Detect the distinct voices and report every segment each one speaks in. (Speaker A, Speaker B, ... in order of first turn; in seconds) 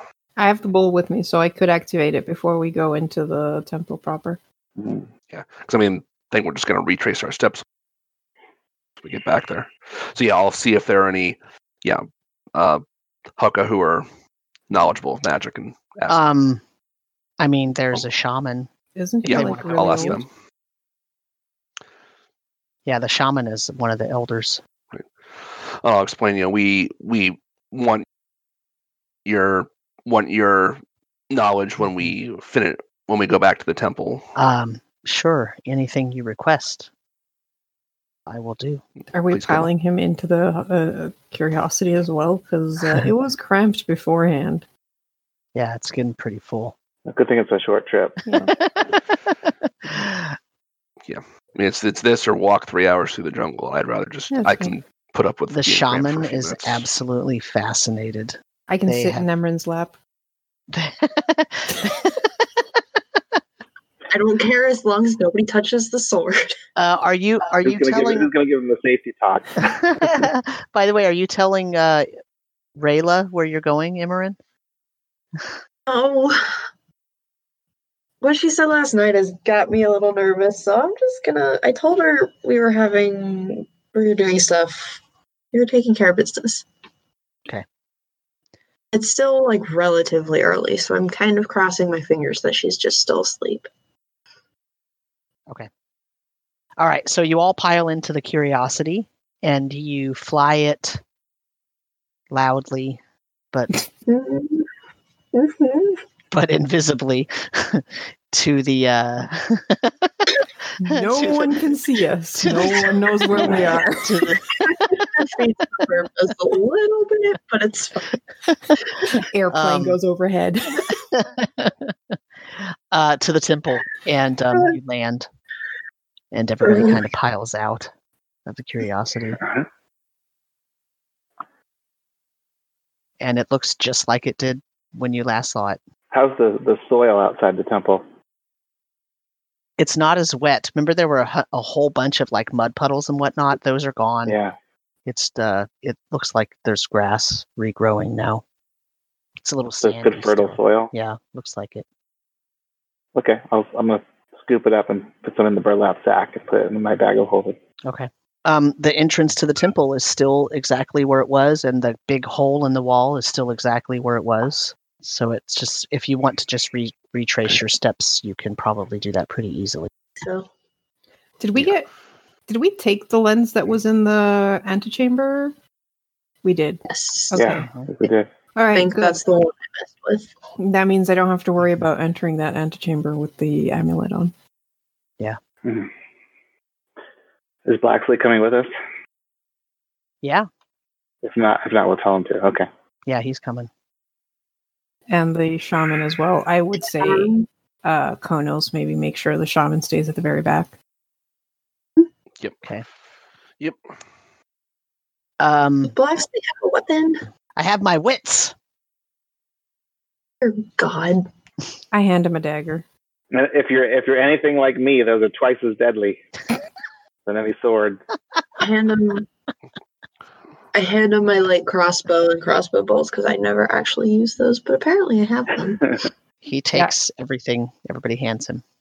Speaker A: 0.4-4.4, 18.9-20.2, 39.1-44.6, 48.2-48.5, 54.3-54.8, 58.7-60.0, 110.8-114.2, 119.1-121.0, 171.4-171.9, 172.5-175.5, 176.4-177.7, 178.5-179.2, 180.6-184.3, 195.1-200.8, 211.9-212.8
Speaker B: 4.8-5.1, 47.0-48.2, 67.6-70.2, 129.4-129.7, 136.1-138.0, 144.2-144.5, 149.8-150.9, 153.1-157.6, 177.3-178.3, 185.6-185.9, 187.7-188.7, 191.2-192.7, 213.3-216.2, 217.2-218.0
Speaker C: 5.3-7.6, 9.0-12.8, 13.3-14.1, 14.7-16.2, 19.2-20.3, 24.9-28.0, 29.2-34.2, 39.3-39.7, 51.1-56.9
Speaker D: 16.1-16.6, 17.4-18.7, 19.3-20.2, 22.9-24.6, 34.4-36.9, 38.3-38.8, 45.5-46.7, 48.5-50.3, 55.5-59.2, 60.7-62.5, 66.8-68.3, 69.6-72.0, 72.8-74.4, 96.8-101.0, 102.3-103.0, 106.3-111.6, 112.4-114.5, 119.5-120.0, 121.1-125.3, 126.3-127.9, 128.4-129.4, 133.2-135.8, 139.8-144.4, 145.1-148.4, 149.4-151.8, 157.8-169.9, 193.1-193.7, 205.4-205.9, 207.5-208.5, 226.4-228.6
Speaker E: 64.1-66.6, 75.9-76.6, 78.2-85.0, 85.5-86.7, 88.9-93.7, 104.1-104.7, 105.3-106.0, 114.6-118.2, 126.6-127.0, 170.2-170.5, 176.9-177.4, 178.7-180.3, 197.0-197.4, 205.9-207.2, 210.4-211.3, 218.6-219.3, 220.7-226.0